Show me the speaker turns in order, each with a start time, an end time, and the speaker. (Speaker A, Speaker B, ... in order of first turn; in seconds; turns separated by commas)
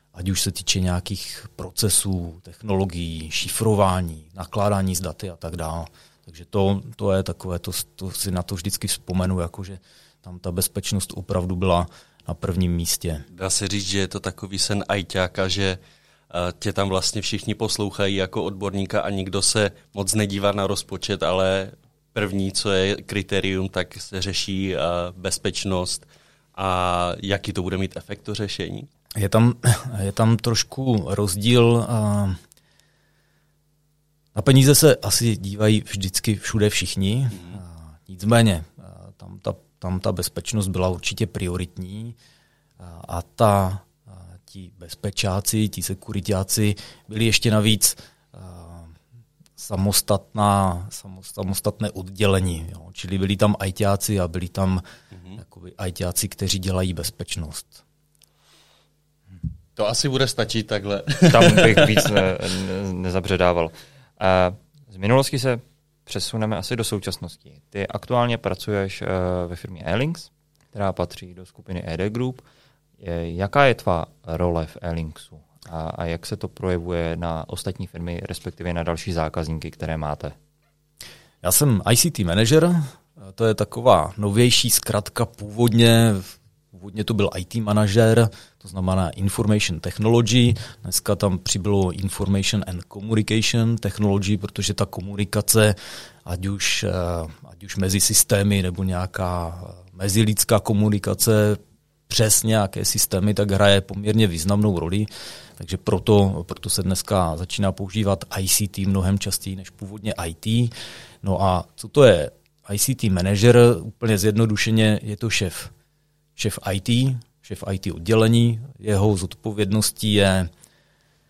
Speaker A: 0.1-13.2, Speaker B: 13.3-15.8, Speaker B: 16.3-26.0, Speaker B: 26.6-28.9, Speaker A: 29.2-32.4, Speaker A: 34.3-42.1, Speaker A: 42.8-49.0, Speaker A: 49.6-54.8, Speaker B: 55.1-55.4, Speaker A: 55.4-57.8, Speaker B: 59.8-62.1, Speaker C: 61.3-72.4, Speaker C: 73.0-80.3, Speaker A: 81.4-110.7, Speaker A: 111.2-115.7, Speaker A: 116.4-120.5